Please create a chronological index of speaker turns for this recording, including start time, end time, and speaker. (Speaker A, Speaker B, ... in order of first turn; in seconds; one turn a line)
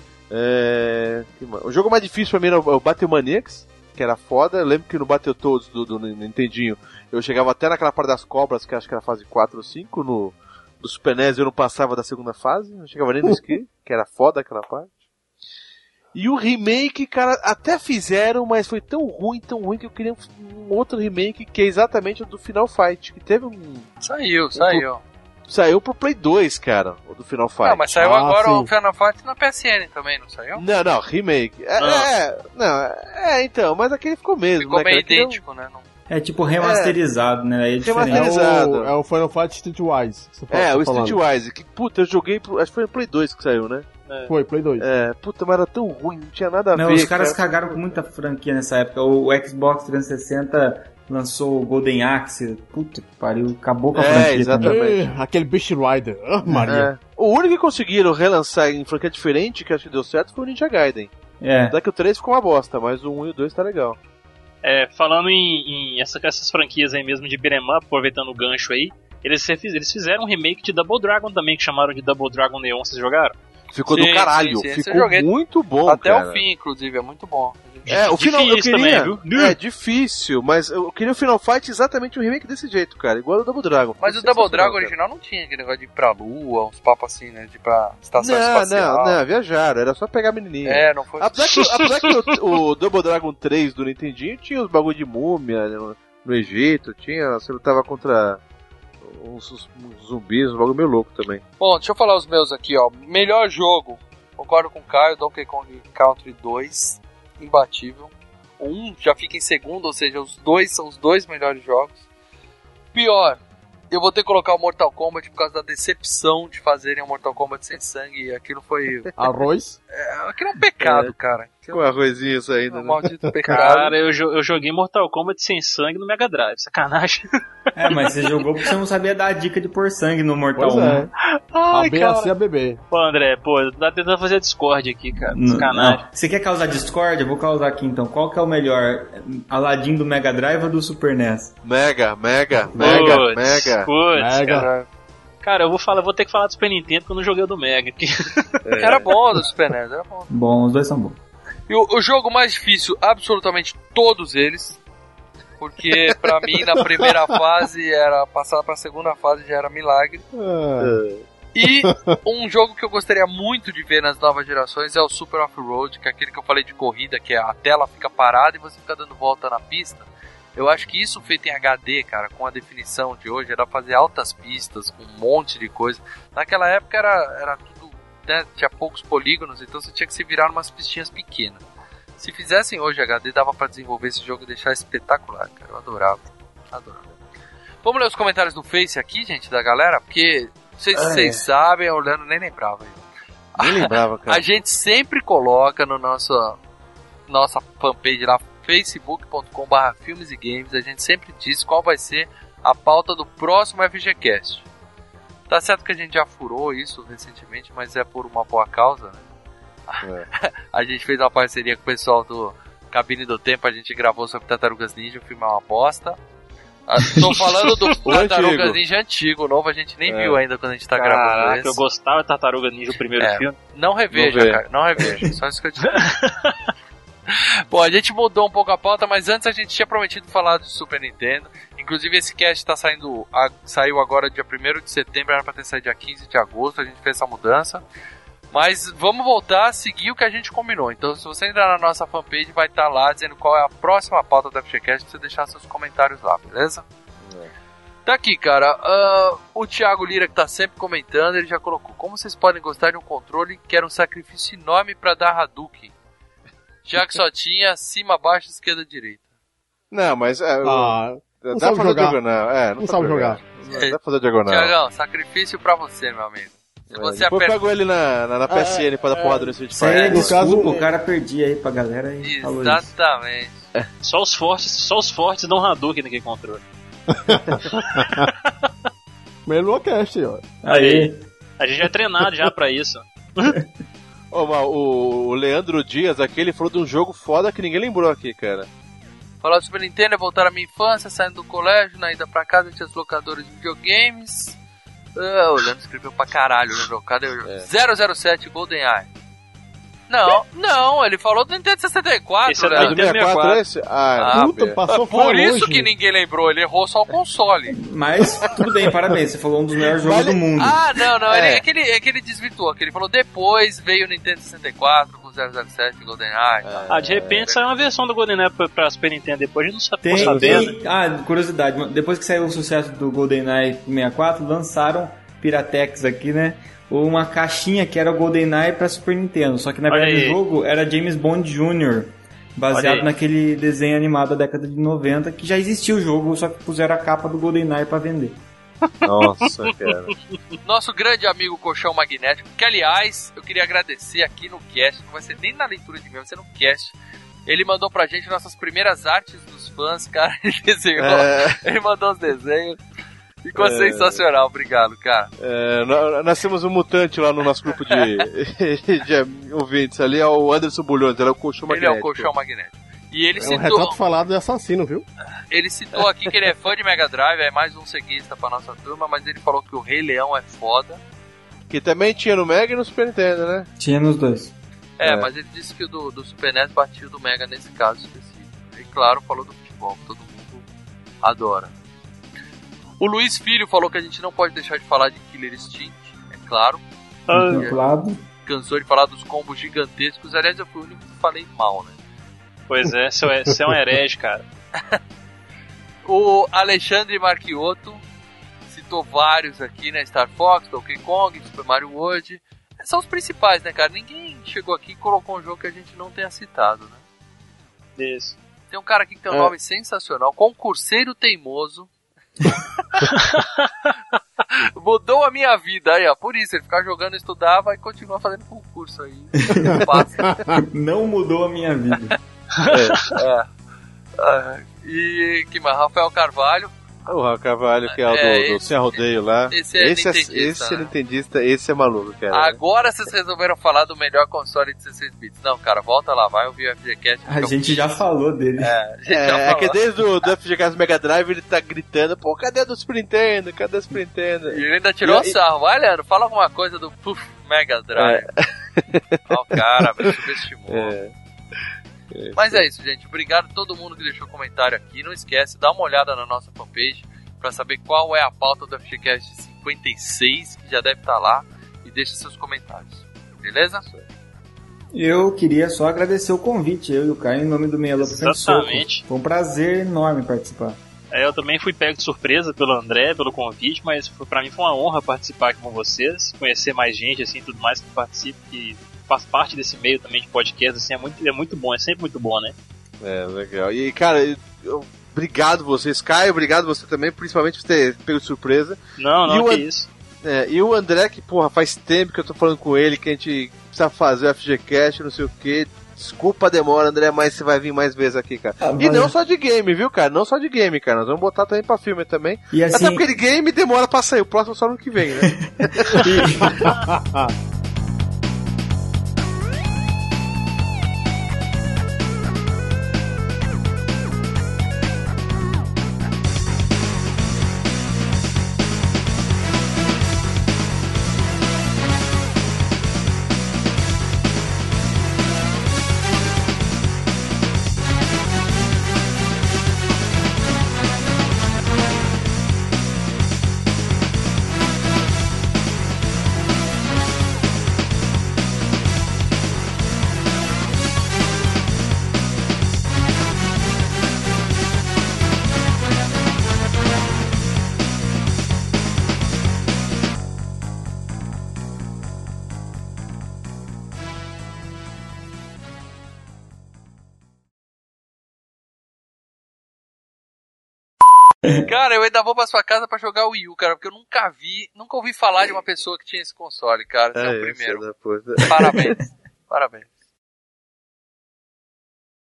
Speaker A: 0.3-14.9
Speaker A: 16.1-23.9
Speaker B: 24.0-25.0
Speaker A: 24.6-24.9
Speaker A: 25.5-28.1
Speaker B: 27.6-30.6
Speaker C: 28.0-28.7
Speaker A: 30.6-35.4
Speaker D: 31.8-32.1
Speaker B: 34.6-35.9
Speaker E: 36.1-38.3
Speaker A: 36.6-37.0
Speaker A: 37.8-38.9
Speaker C: 38.1-41.2
Speaker A: 40.5-43.9
Speaker C: 44.3-44.9
Speaker A: 44.8-47.4
Speaker E: 46.8-54.9
Speaker A: 53.9-55.1
Speaker C: 54.6-56.9
Speaker A: 56.6-61.1
Speaker E: 61.4-61.8
Speaker A: 61.7-64.0
Speaker D: 64.6-73.3
Speaker A: 73.7-76.4
Speaker B: 73.9-75.3
Speaker B: 75.8-77.9
Speaker D: 77.9-79.6
Speaker A: 77.9-84.9
Speaker B: 84.0-89.2
Speaker A: 88.2-98.4
Speaker B: 90.6-91.3
Speaker A: 99.0-101.4
Speaker B: 101.6-112.0
Speaker B: 112.9-113.4
Speaker B: 113.9-119.1
Speaker C: 119.2-119.8
Speaker B: 119.9-121.9
Speaker A: 120.8-121.1
Speaker A: 121.7-123.7
Speaker B: 122.7-124.0
Speaker D: 123.5-127.3
Speaker E: 127.8-131.1
Speaker C: 130.6-131.1
Speaker D: 131.5-132.3
Speaker C: 131.7-132.8
Speaker D: 132.9-136.0
Speaker E: 135.3-141.5
Speaker A: 141.6-143.9
Speaker C: 142.8-143.2
Speaker D: 142.8-144.7
Speaker C: 144.2-144.7
Speaker B: 144.5-144.9
Speaker D: 145.4-148.8
Speaker A: 148.7-149.1
Speaker B: 148.8-150.3
Speaker E: 150.3-151.2
Speaker B: 151.7-154.8
Speaker B: 155.6-160.2
Speaker C: 156.8-157.1
Speaker C: 160.3-161.0
Speaker A: 160.8-161.3
Speaker B: 161.5-181.6
Speaker C: 161.7-162.2
Speaker B: 182.2-187.1
Speaker B: 187.8-193.0
Speaker A: 190.9-191.4
Speaker B: 193.6-196.6
Speaker A: 193.6-194.4
Speaker B: 197.3-204.7
Speaker B: 205.5-209.2
Speaker B: 209.9-216.2
Speaker B: 216.9-221.8
Speaker D: 217.1-218.0
Speaker A: 218.1-218.8
Speaker A: 220.1-220.4
Speaker D: 220.9-223.6
Speaker B: 223.2-226.0
Speaker A: 224.1-225.2
Speaker D: 225.9-226.5
Speaker B: 227.3-237.8
Speaker B: 238.5-246.8
Speaker A: 247.3-247.5
Speaker B: 248.1-255.9
Speaker B: 256.9-259.2
Speaker A: 259.9-264.7
Speaker C: 260.6-262.2
Speaker C: 262.8-263.4
Speaker B: 263.7-267.6
Speaker A: 266.9-270.8
Speaker E: 269.7-272.9
Speaker C: 270.1-270.9
Speaker B: 272.2-273.7
Speaker D: 274.0-276.6
Speaker C: 277.2-278.3
Speaker D: 277.7-278.7
Speaker C: 279.5-280.5
Speaker E: 280.6-281.2
Speaker D: 280.7-283.6
Speaker A: 284.3-288.7
Speaker B: 289.4-294.6
Speaker B: 295.2-299.1
Speaker B: 300.1-303.0
Speaker D: 302.4-303.6
Speaker A: 302.7-304.8
Speaker B: 304.2-307.8
Speaker C: 304.3-305.9
Speaker E: 307.8-310.8
Speaker A: 309.9-311.6
Speaker B: 310.6-316.9
Speaker A: 316.6-317.5
Speaker D: 316.9-320.7
Speaker E: 320.0-338.4
Speaker A: 320.1-320.7
Speaker D: 329.9-330.4
Speaker D: 332.7-333.1
Speaker D: 338.9-339.9
Speaker A: 339.0-340.1
Speaker B: 340.6-352.8
Speaker A: 351.0-351.6
Speaker B: 353.4-355.3
Speaker A: 353.6-354.2
Speaker A: 355.4-362.3
Speaker B: 361.7-364.0
Speaker C: 363.4-365.1
Speaker B: 365.5-371.0
Speaker A: 371.7-373.7
Speaker E: 373.8-374.5
Speaker B: 375.0-380.6
Speaker A: 375.0-375.3
Speaker B: 381.2-381.7
Speaker B: 383.0-386.8
Speaker D: 387.3-387.7
Speaker E: 387.3-388.2
Speaker B: 387.5-387.8
Speaker B: 388.4-392.0
Speaker D: 392.7-394.4
Speaker B: 396.1-398.0
Speaker B: 398.7-407.0
Speaker D: 408.0-408.4
Speaker B: 408.7-411.9
Speaker D: 413.1-413.9
Speaker B: 414.5-420.4
Speaker E: 419.4-419.9
Speaker E: 420.5-422.2
Speaker D: 422.5-423.1
Speaker A: 422.7-423.1
Speaker B: 423.1-423.5
Speaker B: 424.2-426.7
Speaker A: 427.1-432.6
Speaker B: 427.9-430.9
Speaker B: 432.3-438.0
Speaker E: 437.3-438.8
Speaker B: 438.6-439.8
Speaker A: 439.1-445.4
Speaker B: 444.5-448.3
Speaker A: 448.0-448.2
Speaker A: 448.8-449.0
Speaker B: 449.3-451.0
Speaker A: 450.7-451.1
Speaker A: 452.1-452.6
Speaker B: 452.4-464.0
Speaker E: 464.9-470.8
Speaker D: 468.0-469.1
Speaker D: 471.1-482.6
Speaker A: 483.0-489.7
Speaker D: 489.0-489.9
Speaker A: 490.2-506.1
Speaker E: 498.6-499.1
Speaker E: 502.5-503.0
Speaker E: 505.2-506.7
Speaker C: 506.8-507.3
Speaker B: 561.6-567.8
Speaker A: 567.1-568.9
Speaker B: 568.4-569.0
Speaker B: 569.5-569.9